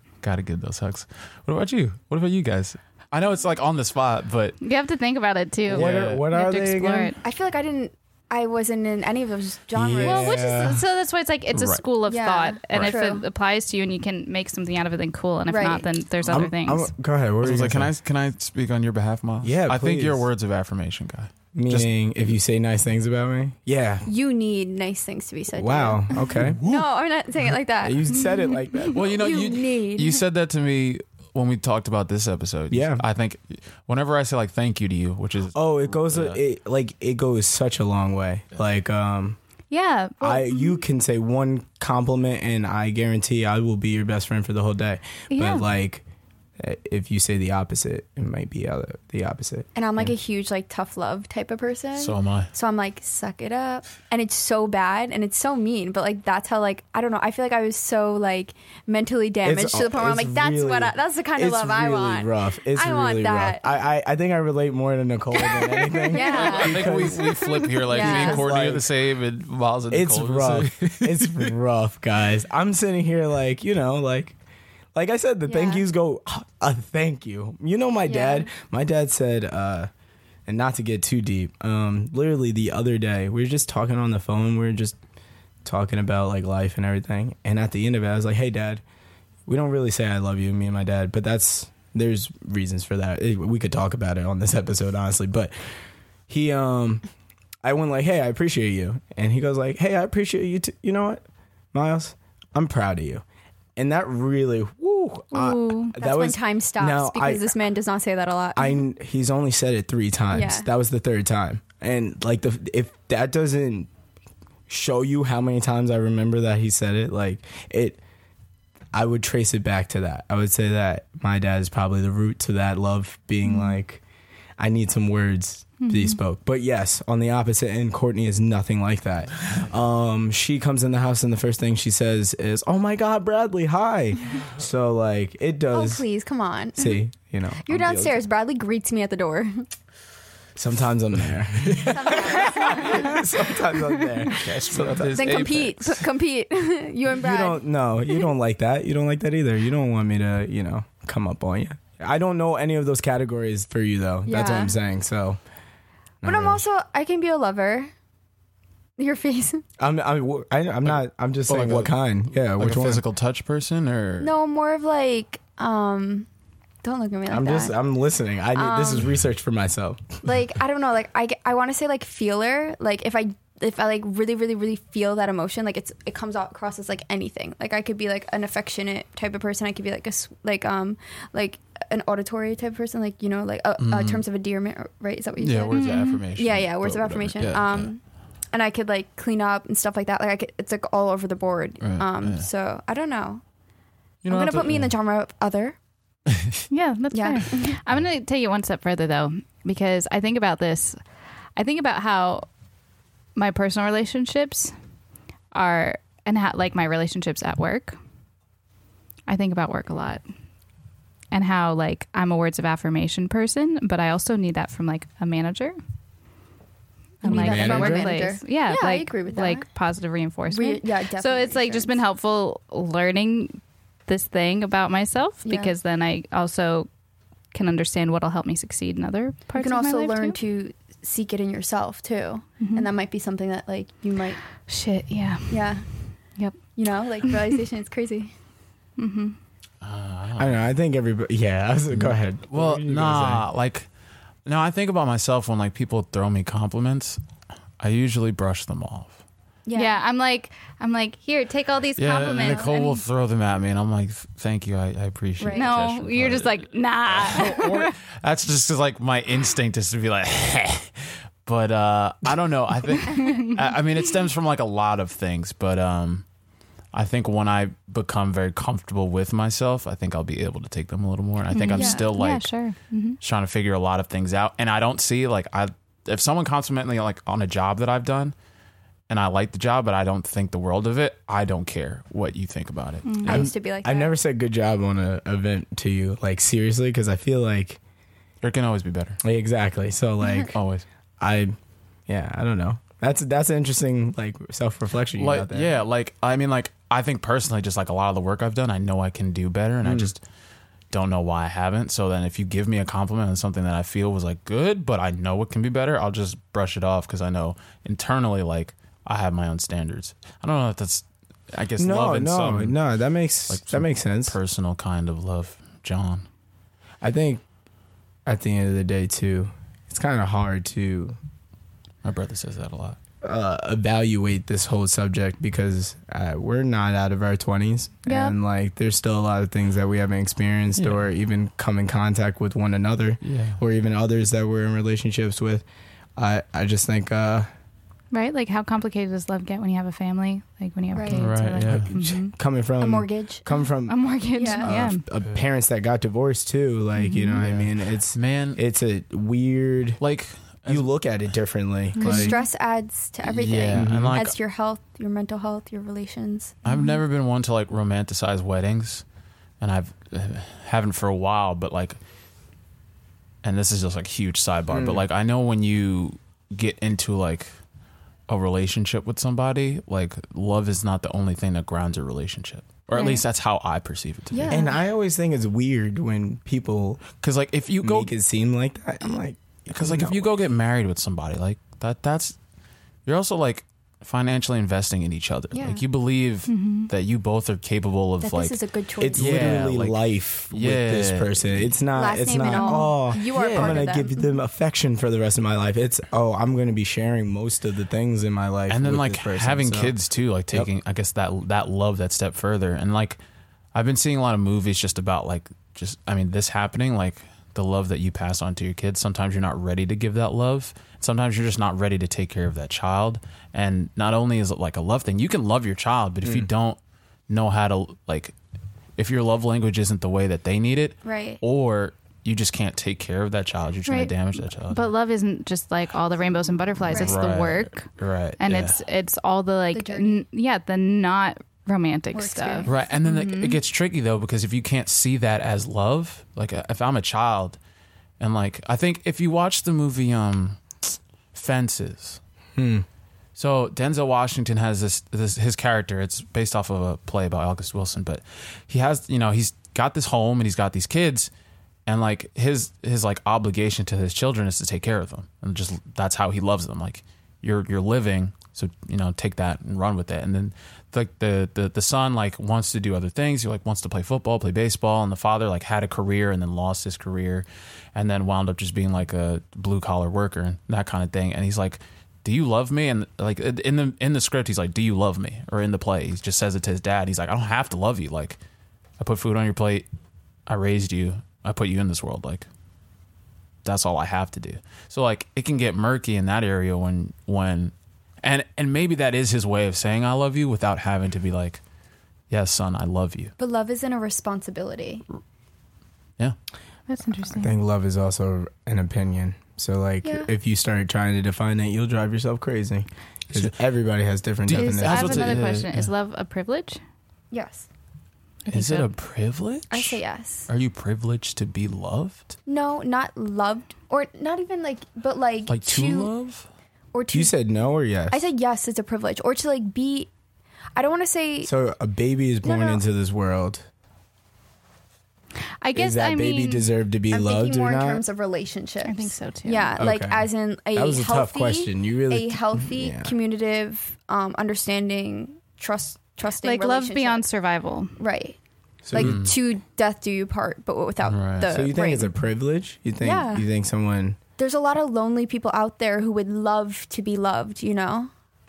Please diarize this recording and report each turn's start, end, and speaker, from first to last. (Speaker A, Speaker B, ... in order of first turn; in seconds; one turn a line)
Speaker A: 0.2-4.6
Speaker B: 4.6-7.2
Speaker A: 5.7-6.2
Speaker C: 5.7-7.2
Speaker D: 7.2-10.4
Speaker C: 9.7-10.8
Speaker B: 10.0-16.9
Speaker A: 11.5-11.8
Speaker D: 12.1-13.3
Speaker A: 12.7-13.0
Speaker D: 15.5-15.9
Speaker C: 16.3-17.9
Speaker A: 17.4-21.9
Speaker C: 19.4-20.3
Speaker C: 21.5-24.1
Speaker D: 24.1-28.1
Speaker C: 25.6-26.6
Speaker A: 26.4-26.9
Speaker C: 27.8-29.1
Speaker B: 28.2-28.5
Speaker D: 28.8-30.2
Speaker A: 28.9-36.4
Speaker C: 32.7-33.0
Speaker C: 35.5-39.4
Speaker B: 39.7-40.8
Speaker C: 40.2-46.0
Speaker B: 45.3-45.6
Speaker C: 46.6-50.1
Speaker D: 49.8-63.6
Speaker A: 52.0-52.5
Speaker C: 59.5-67.4
Speaker D: 65.5-67.1
Speaker A: 66.2-71.5
Speaker D: 67.8-68.5
Speaker C: 67.9-68.9
Speaker C: 69.9-74.4
Speaker C: 74.9-79.9
Speaker D: 75.5-75.8
Speaker D: 78.1-78.5
Speaker C: 80.5-85.0
Speaker C: 85.7-88.8
Speaker C: 89.5-95.5
Speaker C: 96.3-97.0
Speaker C: 97.6-103.2
Speaker C: 103.8-107.5
Speaker B: 105.3-106.0
Speaker D: 106.0-108.8
Speaker C: 108.6-113.9
Speaker D: 110.3-110.7
Speaker C: 114.7-118.0
Speaker C: 118.9-124.0
Speaker C: 124.6-136.0
Speaker B: 125.8-126.2
Speaker D: 135.7-137.0
Speaker C: 136.8-138.2
Speaker D: 137.6-139.7
Speaker C: 140.6-145.3
Speaker D: 141.8-143.2
Speaker A: 144.3-146.1
Speaker D: 145.1-147.6
Speaker C: 147.1-155.4
Speaker D: 154.3-154.8
Speaker C: 156.2-156.6
Speaker D: 156.2-157.9
Speaker D: 159.0-159.6
Speaker C: 159.8-163.0
Speaker A: 160.9-161.9
Speaker A: 162.5-164.3
Speaker D: 164.2-166.3
Speaker D: 166.8-167.8
Speaker C: 167.3-170.2
Speaker D: 168.6-169.1
Speaker D: 170.2-185.8
Speaker A: 183.8-184.2
Speaker A: 185.4-187.9
Speaker B: 185.7-186.2
Speaker D: 186.3-188.0
Speaker D: 188.5-193.4
Speaker A: 191.8-192.5
Speaker A: 194.2-194.9
Speaker D: 194.3-195.8
Speaker B: 196.7-201.0
Speaker D: 197.1-197.8
Speaker B: 201.6-202.5
Speaker B: 203.4-204.7
Speaker B: 205.5-208.0
Speaker B: 209.3-210.2
Speaker B: 211.3-215.8
Speaker B: 217.2-226.9
Speaker D: 217.2-219.7
Speaker C: 217.2-218.1
Speaker D: 220.5-222.0
Speaker D: 225.4-225.7
Speaker B: 227.5-230.4
Speaker D: 229.6-234.4
Speaker B: 232.6-232.9
Speaker B: 234.7-235.7
Speaker D: 235.5-235.8
Speaker D: 236.8-238.3
Speaker B: 239.0-239.4
Speaker A: 239.8-240.6
Speaker C: 240.4-243.4
Speaker A: 241.9-243.9
Speaker A: 244.5-247.2
Speaker A: 247.8-249.2
Speaker D: 249.7-250.0
Speaker B: 249.8-253.0
Speaker A: 252.0-266.3
Speaker D: 252.3-252.7
Speaker D: 255.4-255.7
Speaker B: 255.5-257.9
Speaker B: 263.0-263.7
Speaker A: 266.9-272.5
Speaker B: 271.5-273.2
Speaker D: 271.7-272.1
Speaker A: 273.2-278.4
Speaker A: 279.1-283.4
Speaker B: 283.1-283.5
Speaker D: 283.2-284.2
Speaker C: 283.2-287.8
Speaker A: 288.4-289.2
Speaker C: 289.2-290.6
Speaker A: 290.5-290.9
Speaker C: 291.2-291.6
Speaker C: 292.1-295.7
Speaker A: 295.1-300.2
Speaker C: 299.8-300.1
Speaker A: 300.9-312.8
Speaker C: 311.8-314.4
Speaker A: 313.5-316.3
Speaker C: 317.0-317.4
Speaker C: 318.3-321.2
Speaker A: 322.0-323.0
Speaker C: 323.2-335.6
Speaker B: 328.1-328.4
Speaker A: 330.8-331.0
Speaker A: 333.2-333.6
Speaker C: 336.2-337.5
Speaker B: 338.1-342.3
Speaker D: 340.9-341.3
Speaker A: 341.1-341.9
Speaker C: 341.7-350.0
Speaker D: 342.8-343.5
Speaker B: 343.9-345.0
Speaker D: 344.3-344.7
Speaker B: 347.0-347.4
Speaker A: 347.4-348.6
Speaker A: 350.0-350.9
Speaker C: 350.7-352.3
Speaker A: 352.0-352.3
Speaker B: 352.0-352.4
Speaker D: 352.0-356.6
Speaker A: 353.3-354.4
Speaker C: 353.7-354.2
Speaker B: 356.6-357.0
Speaker A: 356.6-359.0
Speaker A: 359.6-362.0
Speaker A: 363.4-367.5
Speaker C: 364.7-365.0
Speaker A: 368.3-374.6
Speaker D: 374.3-374.8
Speaker C: 374.5-377.0
Speaker A: 377.2-378.1
Speaker C: 377.8-380.3
Speaker A: 379.7-382.4
Speaker A: 383.1-388.6
Speaker D: 385.5-385.8
Speaker B: 386.5-386.9
Speaker D: 388.2-389.6
Speaker C: 389.0-399.9
Speaker A: 389.1-391.6
Speaker D: 391.9-394.1
Speaker B: 392.5-392.9
Speaker A: 393.3-393.8
Speaker A: 398.7-403.2
Speaker A: 403.7-416.8
Speaker C: 416.2-416.5
Speaker A: 417.3-418.4
Speaker A: 419.0-424.9
Speaker D: 421.0-421.4
Speaker B: 424.7-427.9
Speaker A: 426.8-428.8
Speaker D: 426.9-427.2
Speaker B: 428.4-433.6
Speaker D: 429.7-430.2
Speaker D: 432.1-432.8
Speaker A: 432.7-437.6
Speaker A: 438.2-442.2
Speaker C: 442.6-442.9
Speaker A: 443.4-451.3
Speaker A: 451.9-478.4
Speaker A: 479.0-479.9
Speaker A: 480.5-482.5
Speaker A: 483.6-491.6
Speaker A: 492.3-493.3
Speaker D: 493.4-495.1
Speaker B: 496.9-497.5
Speaker C: 497.4-505.4
Speaker D: 500.0-500.3
Speaker A: 504.4-505.9
Speaker B: 504.6-506.8
Speaker D: 507.3-507.7
Speaker A: 508.5-512.4
Speaker B: 508.5-508.9
Speaker D: 509.7-510.5
Speaker D: 512.5-516.1
Speaker A: 515.5-516.5
Speaker D: 516.9-517.3
Speaker C: 517.1-518.2
Speaker D: 518.1-520.1
Speaker D: 520.8-521.5
Speaker C: 521.5-523.6
Speaker D: 522.4-522.8
Speaker B: 525.6-526.7
Speaker C: 525.7-528.0
Speaker D: 527.1-537.3
Speaker B: 528.8-529.8
Speaker C: 529.8-533.1
Speaker B: 536.4-537.9
Speaker D: 538.0-538.4
Speaker C: 538.8-539.2
Speaker D: 538.9-542.1
Speaker A: 539.0-539.3
Speaker A: 541.0-541.5
Speaker C: 541.4-544.2
Speaker D: 543.0-543.5
Speaker D: 544.4-548.1